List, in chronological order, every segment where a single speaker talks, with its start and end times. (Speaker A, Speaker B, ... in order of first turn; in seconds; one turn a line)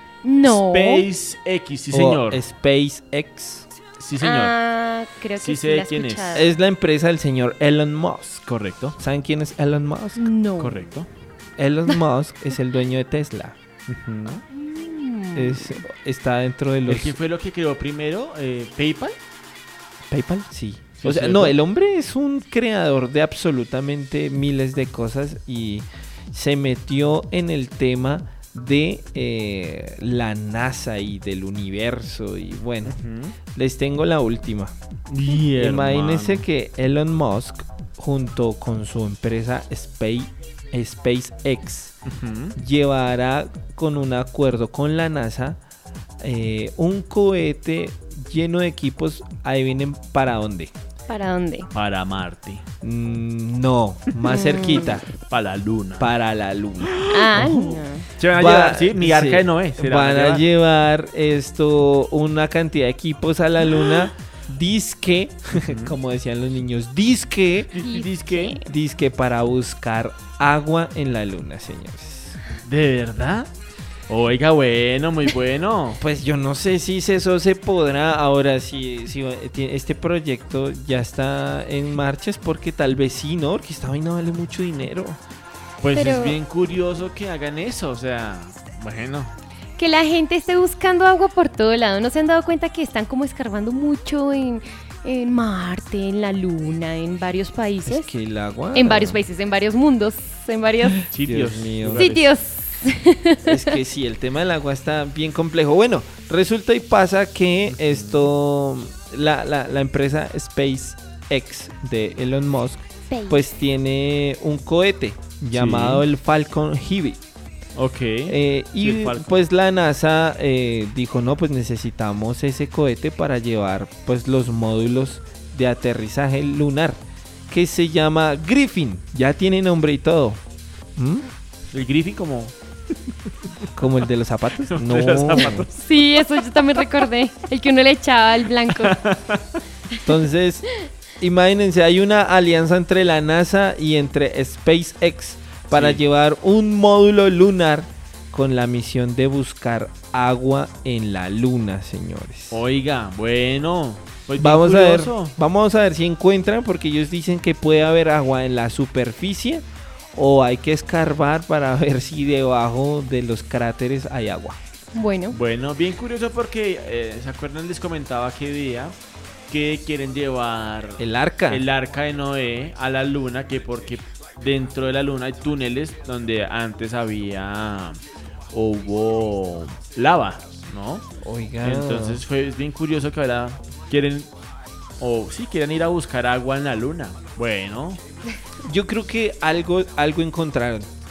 Speaker A: 0.2-1.1
Speaker B: 0.4-2.4
Speaker C: 1.9-3.7
Speaker B: 4.0-4.5
Speaker A: 4.2-6.5
Speaker B: 5.4-6.5
Speaker C: 6.3-8.4
Speaker B: 8.4-8.9
Speaker C: 9.0-10.3
Speaker A: 10.2-10.9
Speaker B: 10.6-11.1
Speaker C: 11.6-13.6
Speaker B: 13.9-14.4
Speaker A: 14.5-15.8
Speaker C: 15.3-17.1
Speaker B: 16.9-19.2
Speaker C: 20.1-33.0
Speaker B: 21.0-21.6
Speaker B: 32.8-33.4
Speaker C: 33.5-34.7
Speaker B: 35.1-36.5
Speaker C: 35.5-41.9
Speaker B: 42.1-42.5
Speaker C: 42.5-45.6
Speaker C: 46.2-50.7
Speaker A: 51.1-51.7
Speaker B: 51.7-52.6
Speaker C: 52.8-55.1
Speaker A: 54.3-55.0
Speaker B: 55.1-56.1
Speaker C: 56.0-57.5
Speaker B: 56.8-60.4
Speaker A: 57.1-58.1
Speaker C: 58.3-67.8
Speaker B: 65.5-66.0
Speaker B: 67.7-68.6
Speaker A: 67.7-68.6
Speaker C: 68.6-72.4
Speaker B: 72.6-73.5
Speaker B: 74.1-76.0
Speaker C: 76.0-85.2
Speaker B: 85.8-89.3
Speaker A: 85.9-86.4
Speaker A: 89.8-98.1
Speaker C: 97.8-99.2
Speaker A: 98.7-101.0
Speaker C: 101.0-102.1
Speaker B: 101.1-102.3
Speaker A: 101.9-103.8
Speaker C: 103.4-117.2
Speaker B: 107.7-108.3
Speaker A: 113.1-113.4
Speaker B: 115.5-116.0
Speaker B: 117.8-119.4
Speaker C: 118.3-130.4
Speaker C: 130.9-131.3
Speaker B: 131.7-132.5
Speaker C: 133.7-135.7
Speaker B: 134.6-136.9
Speaker A: 135.4-139.0
Speaker B: 138.6-139.6
Speaker C: 140.0-140.7
Speaker C: 141.2-152.6
Speaker B: 145.7-146.0
Speaker B: 152.5-155.3
Speaker C: 154.4-159.6
Speaker C: 160.1-164.6
Speaker A: 164.9-165.4
Speaker B: 165.3-168.9
Speaker B: 169.5-181.0
Speaker C: 171.0-171.6
Speaker C: 181.2-182.2
Speaker B: 181.6-184.3
Speaker B: 185.0-188.0
Speaker C: 188.6-190.9